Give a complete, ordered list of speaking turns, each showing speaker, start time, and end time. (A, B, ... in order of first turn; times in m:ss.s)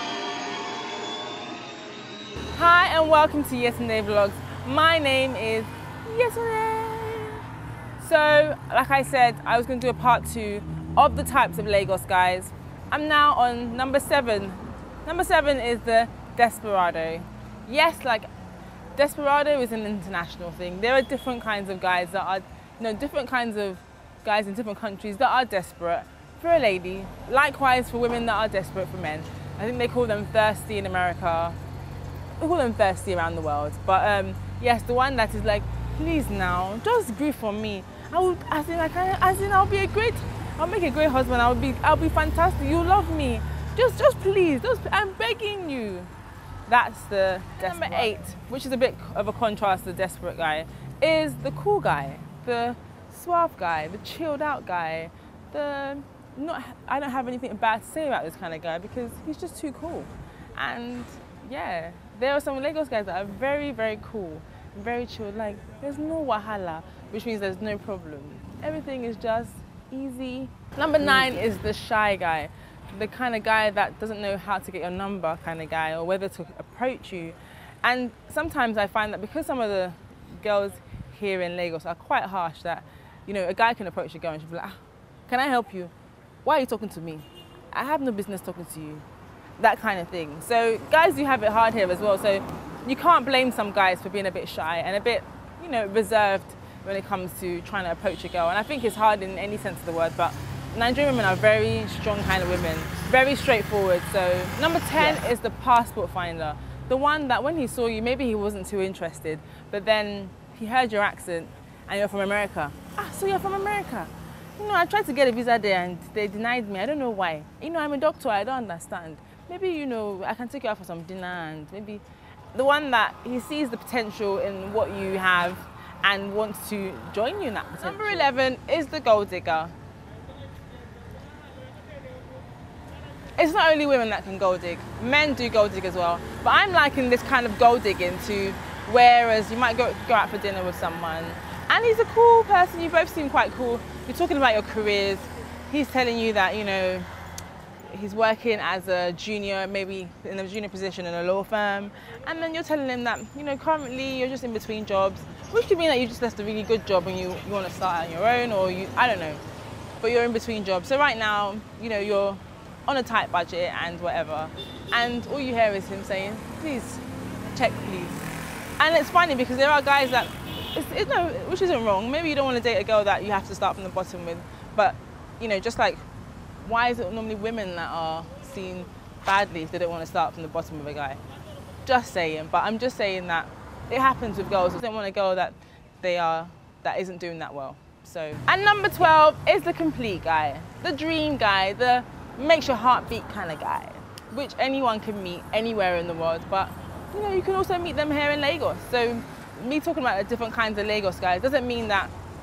0:02.5-0:07.4 A
0:08.0-0:18.3 A
0:19.0-0:31.6 A
0:32.4-0:46.1 A
0:46.7-1:25.9 A
1:26.4-1:29.0 A
1:29.6-2:09.7 A
2:13.4-2:27.1 A
2:27.9-2:39.4 A
2:40.0-2:56.0 A
2:56.6-3:01.2 A
3:01.8-3:22.1 A